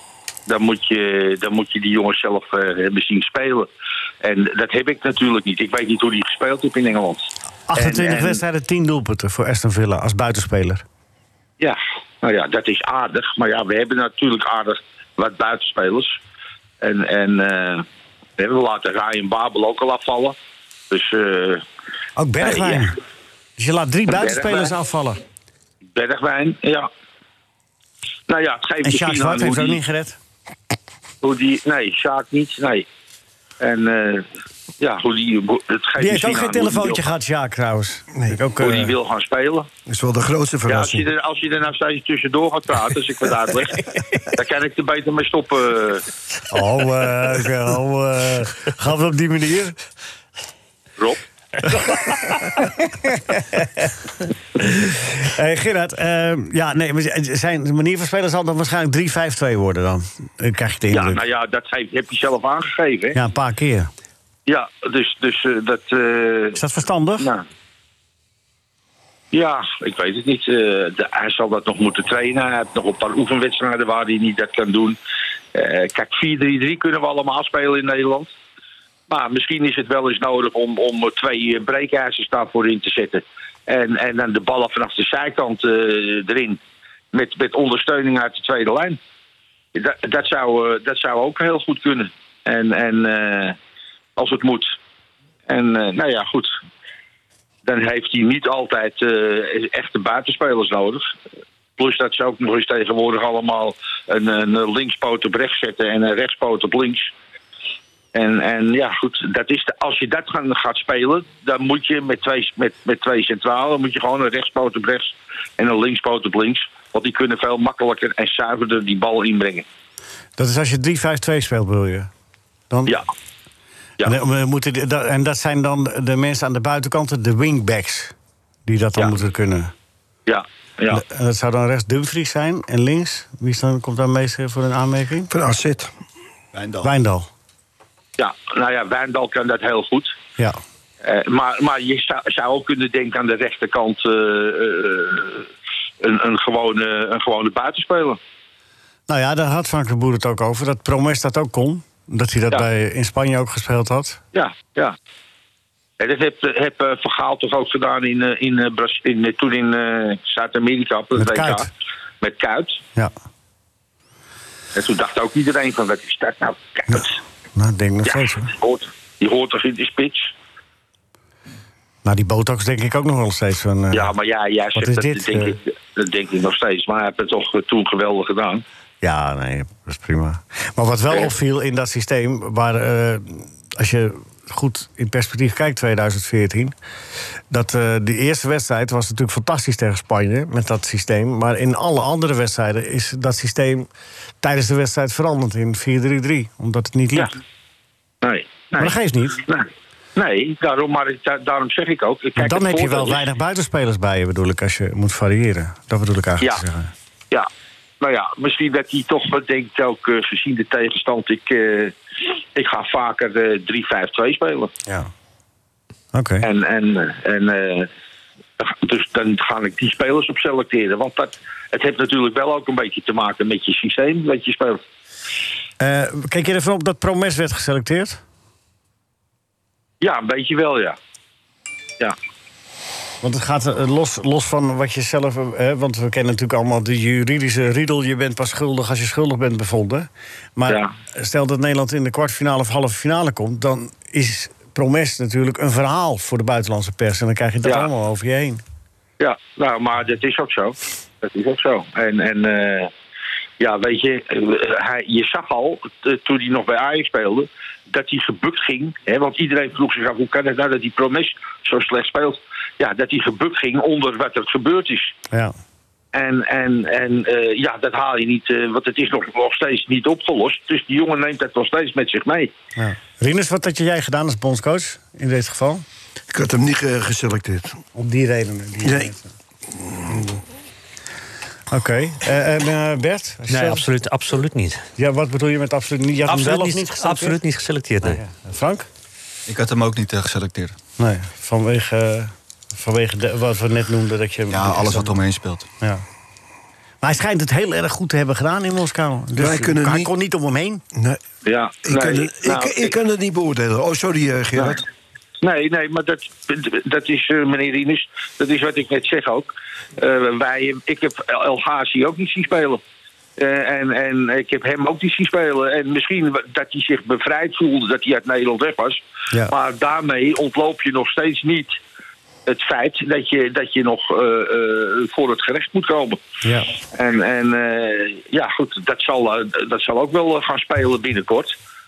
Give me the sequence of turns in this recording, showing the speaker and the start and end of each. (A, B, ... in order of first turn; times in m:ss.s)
0:00.5-0:03.7 A
0:04.2-0:08.4 A
0:07.7-0:10.8 B
0:11.6-0:16.2 A
0:16.8-0:17.8 A
0:18.4-0:20.3 A
0:20.9-0:21.6 A
0:22.2-0:23.0 B
0:22.4-0:22.9 A
0:23.6-0:25.2 B
0:24.1-0:24.7 A
0:26.0-0:26.9 A
0:28.3-0:29.8 A
0:28.8-0:30.2 B
0:31.2-0:32.8 A
0:33.6-0:34.2 A
0:34.8-0:37.0 A
0:36.0-0:38.9 B
0:38.6-0:39.7 A
0:39.9-0:41.1 C
0:40.7-0:46.0 A
0:46.5-0:49.8 B
0:51.7-0:53.9 B
0:54.6-1:01.2 B
1:00.9-1:03.2 A
1:03.1-1:03.9 B
1:04.5-1:06.6 A
1:06.6-1:07.3 B
1:07.2-1:07.4 A
1:09.3-1:15.0 A
1:15.5-1:18.3 A
1:19.1-1:26.6 A
1:27.1-1:29.0 A
1:29.7-1:33.6 A
1:34.2-1:34.7 A
1:35.5-1:36.5 A
1:37.6-1:41.1 A
1:41.8-1:47.1 A
1:48.1-1:59.6 A
2:00.4-2:02.1 B
2:02.7-2:03.0 B
2:04.0-2:08.1 B
2:08.6-2:09.7 B
2:10.3-2:11.0 A
2:10.9-2:15.3 B
2:15.3-2:15.9 C
2:16.5-2:16.9 D
2:16.8-2:17.3 B
2:18.2-2:20.2 A
2:21.0-2:25.5 A
2:26.0-2:28.2 A
2:29.1-2:34.2 B
2:34.3-2:35.0 A
2:36.0-2:41.7 A
2:41.2-2:41.7 B
2:42.2-2:42.8 A
2:44.7-2:47.2 A
2:47.6-2:48.5 B
2:48.0-2:50.3 A
2:52.0-2:54.1 B
2:53.9-2:58.6 A
2:54.7-2:55.6 B
2:59.0-3:06.8 B
3:07.5-3:13.9 B
3:14.4-3:17.3 B
3:18.2-3:23.2 A
3:18.8-3:19.4 B
3:22.4-3:26.9 B
3:28.0-3:32.0 A
3:32.5-3:34.7 A
3:36.1-3:36.4 B
3:36.4-3:37.9 A
3:38.6-3:44.8 A
3:45.8-3:48.2 B
3:50.0-3:51.0 A
3:53.2-4:08.6 B
4:09.2-4:12.9 A
4:13.6-4:25.1 A
4:26.1-4:32.5 A
4:32.8-4:35.8 B
4:36.3-4:37.8 C
4:37.9-4:39.3 B
4:38.8-4:39.1 C
4:39.7-4:40.2 C
4:41.7-4:43.9 B
4:43.5-4:44.8 E
4:45.0-4:47.4 B
4:46.3-4:48.2 E
4:48.0-4:48.9 B
4:49.4-4:50.7 D
4:51.0-4:55.1 B
4:54.5-4:55.7 D
4:57.0-5:00.8 B
4:59.4-5:00.1 C
5:00.9-5:01.2 C
5:01.4-5:02.9 A
5:01.8-5:04.8 C
5:05.4-5:12.8 A
5:13.4-5:21.8 A
5:22.5-5:26.2 A
5:26.4-5:26.7 B
5:26.9-5:31.5 A